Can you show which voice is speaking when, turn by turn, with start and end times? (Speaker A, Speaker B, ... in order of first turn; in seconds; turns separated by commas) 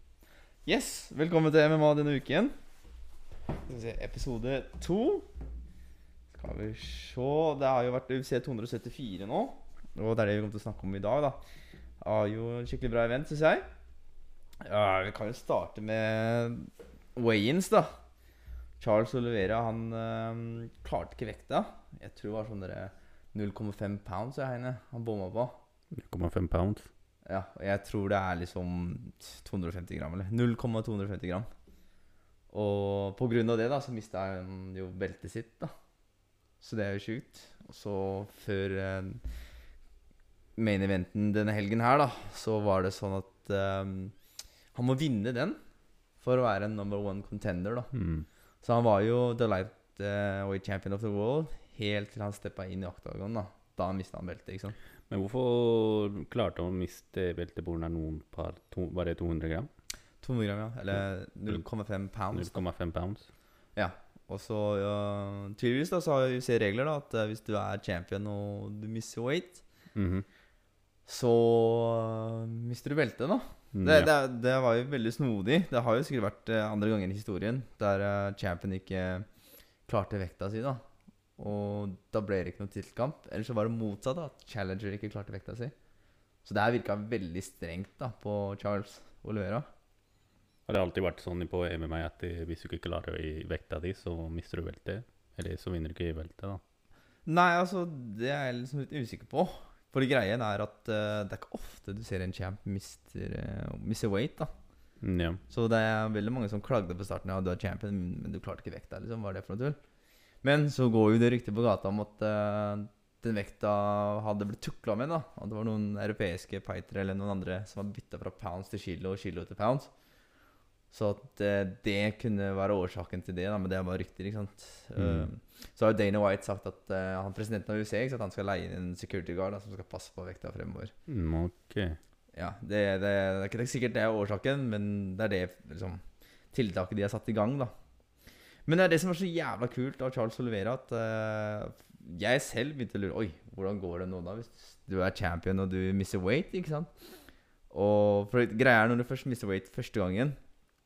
Speaker A: 0.7-2.5, Speaker A: 3.6-5.2, Speaker A: 6.3-11.4, Speaker A: 12.0-13.6, Speaker A: 14.6-17.9, Speaker A: 18.8-25.6, Speaker B: 25.9-26.9, Speaker A: 27.2-31.5, Speaker A: 32.5-35.7, Speaker A: 36.6-39.2, Speaker A: 40.6-44.1, Speaker A: 44.7-45.6, Speaker A: 46.2-47.9, Speaker B: 47.9-48.2, Speaker A: 48.6-54.7, Speaker B: 55.1-59.7, Speaker A: 60.2-62.6, Speaker B: 62.3-63.3, Speaker A: 63.8-69.6, Speaker B: 69.9-70.2, Speaker A: 71.0-79.3, Speaker B: 73.7-74.1, Speaker A: 79.9-80.8, Speaker A: 81.4-85.7, Speaker A: 86.4-89.6, Speaker B: 90.7-96.6, Speaker A: 97.2-104.5, Speaker B: 105.0-105.4, Speaker A: 105.5-109.8, Speaker A: 110.4-119.9, Speaker A: 120.9-130.9, Speaker B: 125.0-125.3, Speaker B: 131.1-132.0, Speaker A: 132.3-137.7, Speaker A: 138.7-146.9, Speaker A: 147.7-150.3